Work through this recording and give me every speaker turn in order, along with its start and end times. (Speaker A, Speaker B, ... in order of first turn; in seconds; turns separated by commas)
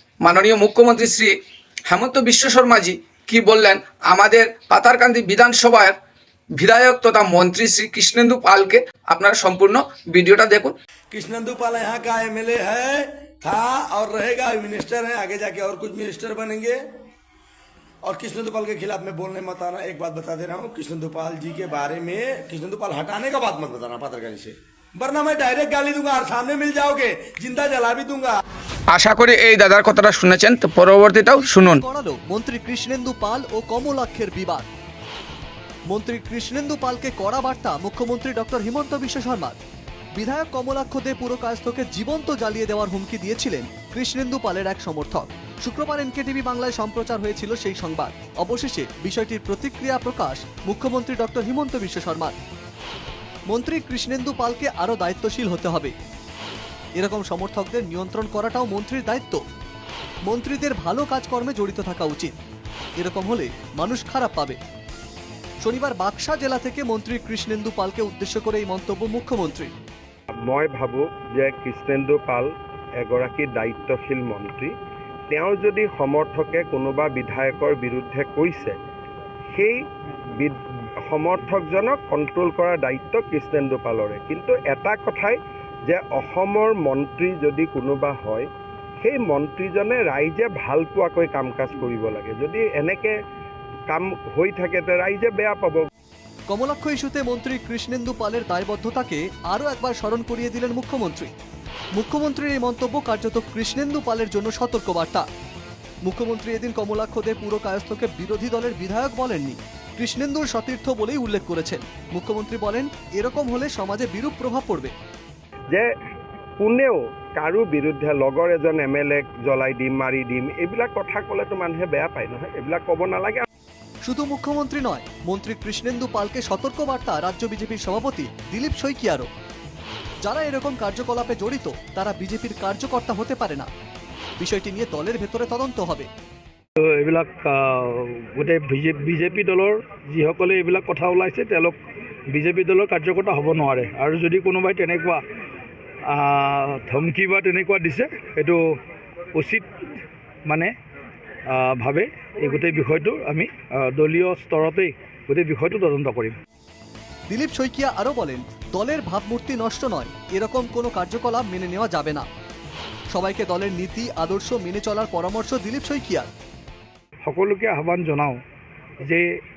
Speaker A: 0.2-6.0, Speaker A: 6.5-10.8, Speaker B: 11.1-16.8, Speaker B: 18.1-28.4, Speaker A: 28.9-31.8, Speaker C: 31.4-34.7, Speaker C: 35.9-39.6, Speaker C: 40.2-52.4, Speaker C: 53.5-55.9, Speaker C: 57.0-59.4, Speaker C: 60.2-62.4, Speaker C: 63.0-64.6, Speaker C: 65.6-69.7, Speaker D: 70.5-74.7, Speaker D: 75.3-78.8, Speaker D: 79.5-79.8, Speaker D: 80.4-88.5, Speaker D: 89.0-93.1, Speaker D: 93.9-95.9, Speaker C: 96.5-101.3, Speaker C: 101.9-105.3, Speaker C: 106.0-114.9, Speaker D: 116.6-123.5, Speaker C: 124.1-129.3, Speaker C: 130.2-133.7, Speaker C: 134.4-136.1, Speaker E: 136.8-141.8, Speaker E: 142.3-145.2, Speaker E: 146.1-148.8, Speaker E: 149.3-149.7, Speaker E: 150.5-150.7, Speaker E: 151.5-156.4, Speaker C: 157.3-162.3, Speaker C: 163.1-166.3, Speaker E: 167.3-168.4, Speaker E: 169.0-169.4